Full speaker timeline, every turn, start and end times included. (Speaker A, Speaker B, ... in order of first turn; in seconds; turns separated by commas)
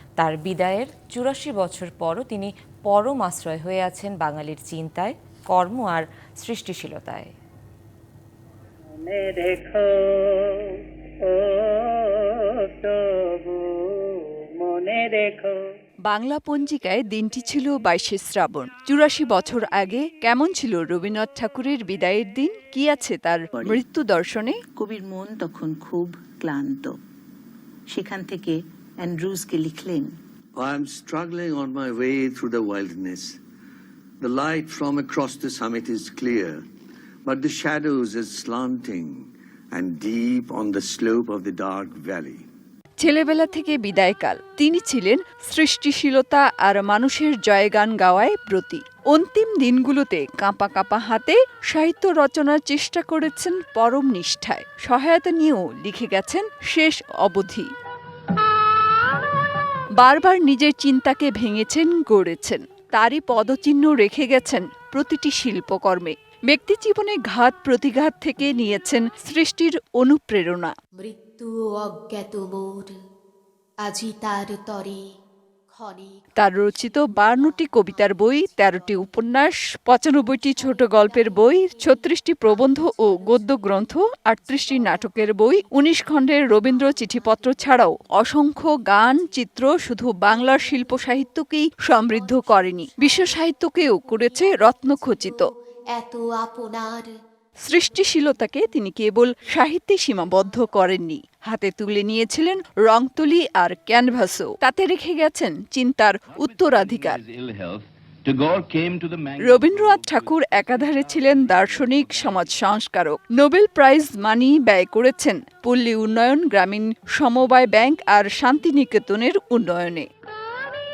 Speaker A: 0.2-7.3, Speaker B: 16.1-24.6, Speaker C: 24.9-26.9, Speaker C: 28.0-28.4, Speaker C: 29.2-30.0, Speaker D: 30.6-33.3, Speaker D: 34.2-36.6, Speaker D: 37.3-39.2, Speaker D: 39.8-42.4, Speaker B: 43.0-57.7, Speaker B: 60.0-70.7, Speaker E: 71.0-72.9, Speaker E: 73.9-75.0, Speaker E: 75.7-76.1, Speaker B: 76.4-95.5, Speaker E: 96.0-97.1, Speaker B: 97.6-107.2, Speaker D: 106.4-112.0, Speaker B: 109.4-120.1